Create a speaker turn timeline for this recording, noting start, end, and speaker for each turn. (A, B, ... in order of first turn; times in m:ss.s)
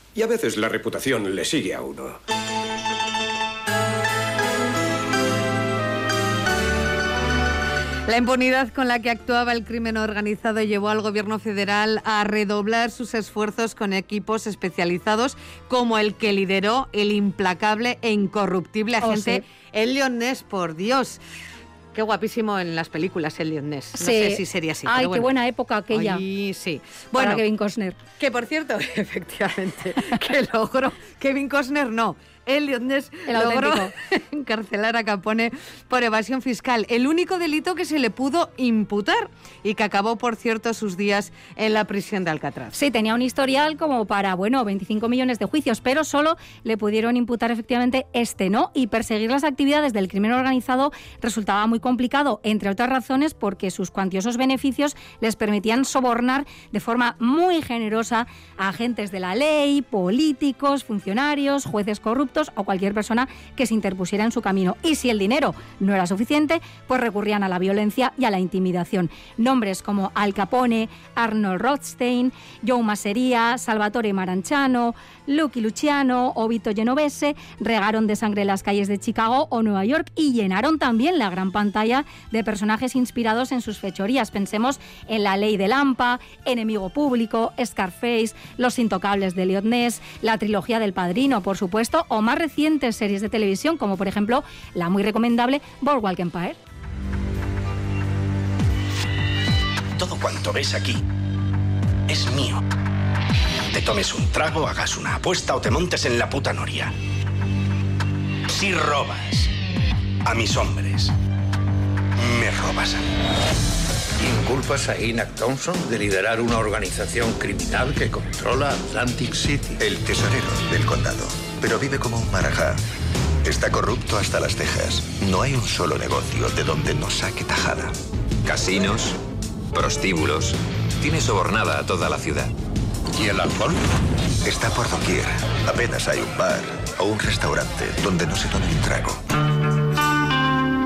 0:00.2-0:02.2 A
0:08.1-0:21.2 B
0:19.0-0:19.4 C
0:21.9-0:25.3 B
0:24.0-0:26.2 C
0:25.9-0:27.4 B
0:27.2-0:28.0 C
0:28.2-0:42.7 B
0:33.3-0:33.9 C
0:42.7-1:36.6 C
1:40.0-1:41.0 D
1:42.1-1:42.6 D
1:43.7-1:46.9 D
1:48.5-1:49.5 D
1:50.2-1:51.1 D
1:52.2-1:53.1 D
1:54.2-1:59.8 E
1:59.8-2:02.8 F
2:03.4-2:08.0 F
2:08.4-2:09.2 G
2:09.7-2:12.5 G
2:13.2-2:13.8 E
2:14.4-2:19.2 F